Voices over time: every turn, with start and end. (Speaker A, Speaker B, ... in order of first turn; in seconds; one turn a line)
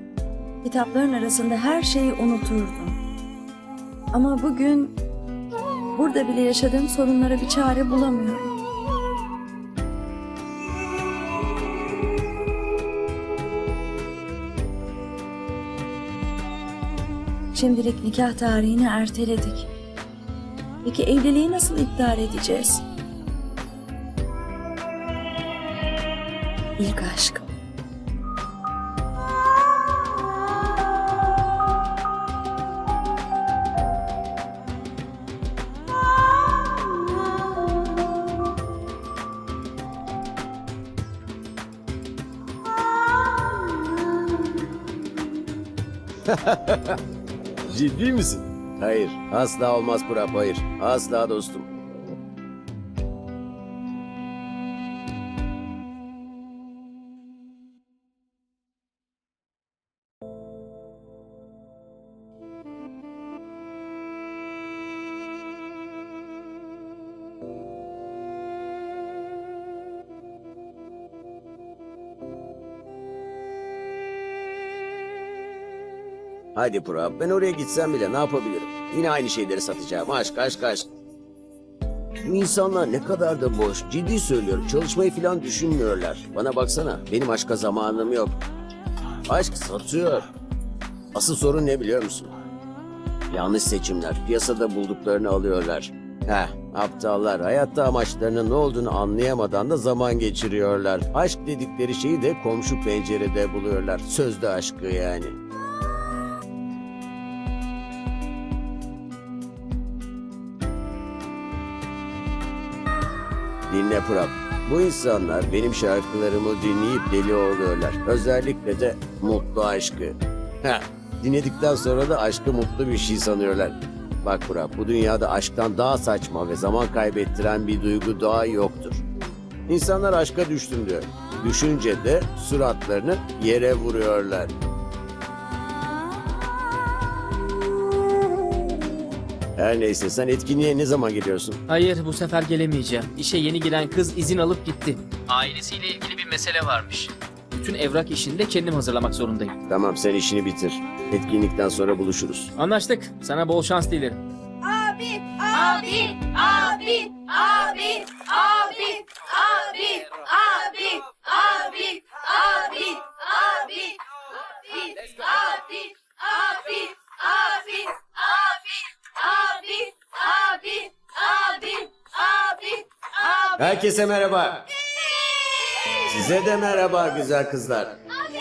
Speaker A: 0.6-3.0
Speaker A: 4.1-5.0
Speaker A: 5.9-8.5
Speaker A: 17.5-19.7
Speaker A: 20.8-22.8
Speaker A: 26.8-27.5
Speaker B: 46.3-47.0
Speaker B: 47.7-51.7
Speaker B: 76.5-80.9
Speaker B: 82.2-88.4
Speaker B: 89.3-90.2
Speaker B: 91.1-92.3
Speaker B: 93.3-105.4
Speaker B: 113.7-129.0
Speaker B: 129.7-134.5
Speaker B: 139.6-141.6
Speaker C: 141.7-149.5
Speaker B: 149.7-152.5
Speaker C: 152.6-154.2
Speaker A: 154.7-155.7
Speaker D: 158.0-163.9
Speaker D: 165.2-168.6
Speaker D: 169.2-172.8
Speaker B: 173.5-174.7
Speaker B: 176.0-178.0